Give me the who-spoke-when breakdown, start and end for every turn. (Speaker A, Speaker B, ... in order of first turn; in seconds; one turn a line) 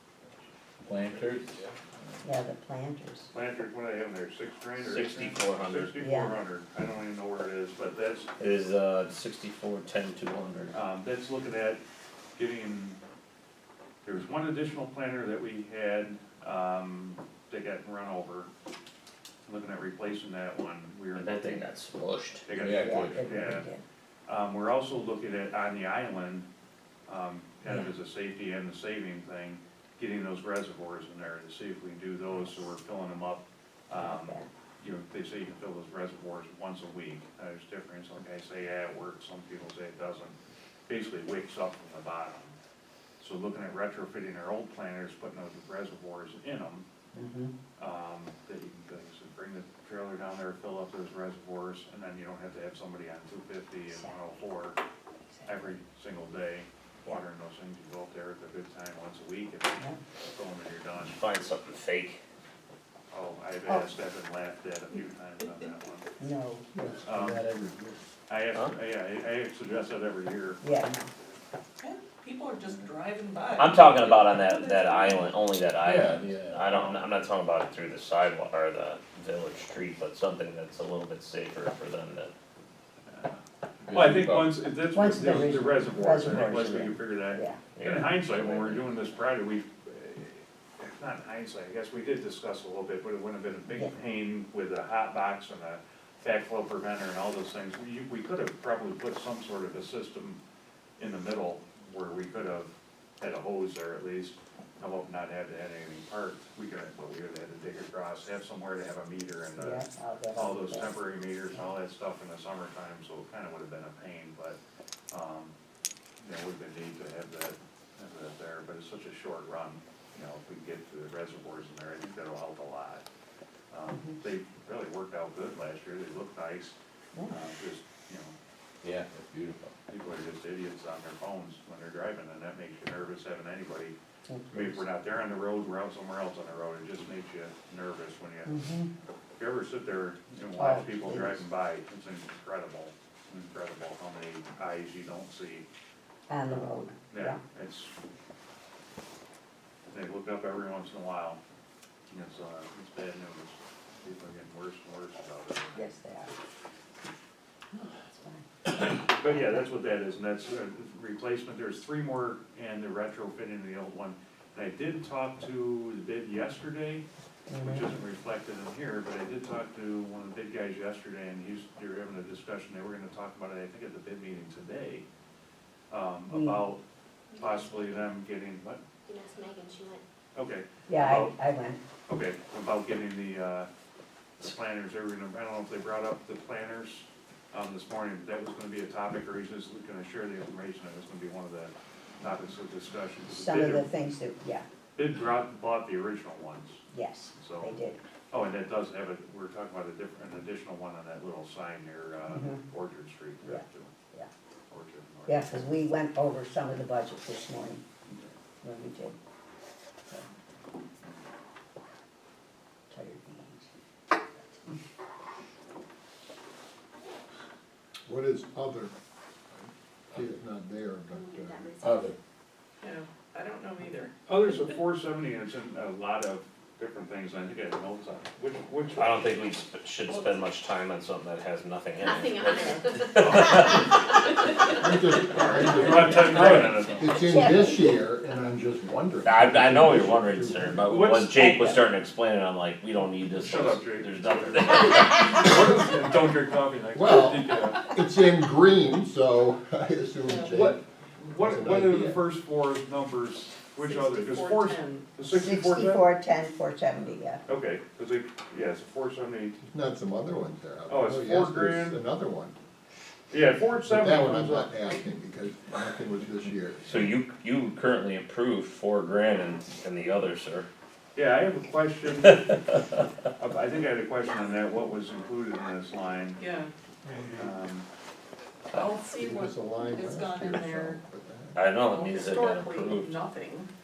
Speaker A: 0.2-1.7
Speaker B: 0.8-2.1
Speaker C: 2.2-3.3
Speaker D: 3.3-8.3
Speaker A: 4.8-6.0
Speaker C: 6.0-6.4
Speaker A: 8.4-10.8
Speaker D: 10.7-11.8
Speaker D: 12.4-13.0
Speaker D: 14.0-18.5
Speaker D: 19.5-21.7
Speaker A: 21.1-22.5
Speaker D: 22.5-23.7
Speaker B: 22.5-23.3
Speaker C: 22.7-23.8
Speaker D: 24.3-26.5
Speaker D: 27.1-40.4
Speaker C: 33.9-34.5
Speaker D: 40.9-42.5
Speaker D: 43.2-46.9
Speaker C: 47.1-47.5
Speaker D: 47.8-54.8
Speaker C: 53.9-54.2
Speaker C: 55.3-55.8
Speaker D: 55.5-61.4
Speaker A: 61.0-62.2
Speaker D: 63.1-66.1
Speaker C: 66.2-66.7
Speaker B: 66.7-68.0
Speaker D: 67.1-67.5
Speaker D: 68.3-70.6
Speaker C: 70.6-71.1
Speaker E: 71.8-75.5
Speaker A: 73.6-82.3
Speaker B: 75.8-76.7
Speaker D: 76.7-77.1
Speaker D: 83.1-83.4
Speaker B: 83.9-84.7
Speaker D: 83.9-100.4
Speaker C: 84.9-87.6
Speaker A: 87.8-88.8
Speaker D: 101.0-114.6
Speaker C: 109.6-111.0
Speaker D: 115.1-115.5
Speaker D: 116.2-123.0
Speaker D: 123.7-126.8
Speaker C: 123.9-124.2
Speaker D: 127.3-128.3
Speaker B: 128.8-129.7
Speaker D: 129.9-133.9
Speaker C: 134.3-134.8
Speaker D: 134.5-138.6
Speaker C: 138.4-138.9
Speaker D: 139.4-145.7
Speaker C: 140.5-141.4
Speaker C: 146.3-147.4
Speaker D: 146.4-147.9
Speaker D: 149.9-151.4
Speaker D: 152.1-155.8
Speaker C: 155.7-156.3
Speaker C: 157.7-158.4
Speaker D: 158.7-167.1
Speaker C: 159.3-159.6
Speaker C: 167.5-167.9
Speaker D: 167.6-175.1
Speaker D: 175.9-176.8
Speaker C: 176.3-176.7
Speaker F: 177.3-177.8
Speaker D: 177.3-178.8
Speaker F: 179.1-180.0
Speaker D: 180.3-181.4
Speaker C: 180.9-181.8
Speaker D: 182.1-183.7
Speaker D: 184.4-193.9
Speaker C: 193.3-194.7
Speaker D: 195.0-196.8
Speaker C: 196.9-198.0
Speaker D: 197.3-197.8
Speaker D: 198.3-203.9
Speaker C: 202.3-202.6
Speaker C: 203.4-204.3
Speaker D: 204.7-205.6
Speaker C: 205.3-207.8
Speaker C: 208.6-209.2
Speaker C: 212.9-213.7
Speaker G: 218.1-218.9
Speaker G: 220.1-221.9
Speaker F: 221.1-222.2
Speaker B: 221.8-222.1
Speaker E: 222.8-224.2
Speaker D: 224.3-229.3
Speaker A: 228.9-234.1
Speaker F: 232.0-233.8
Speaker D: 233.2-233.8
Speaker G: 234.7-240.8
Speaker D: 235.2-237.3
Speaker C: 237.1-238.0
Speaker A: 239.2-245.4
Speaker D: 240.8-241.8
Speaker D: 243.3-247.9
Speaker G: 246.9-252.3
Speaker E: 250.2-250.6
Speaker D: 250.5-256.1
Speaker E: 253.8-255.1
Speaker C: 255.2-257.4
Speaker D: 257.5-259.6
Speaker G: 259.6-262.6
Speaker D: 260.9-262.0
Speaker D: 263.3-264.7
Speaker G: 263.9-267.1
Speaker A: 266.8-270.7
Speaker D: 271.1-272.7
Speaker D: 273.4-276.4
Speaker E: 276.4-276.7
Speaker G: 277.1-277.5
Speaker D: 277.4-277.9
Speaker E: 278.7-281.0
Speaker G: 279.1-281.6
Speaker A: 281.5-283.2
Speaker E: 281.8-283.7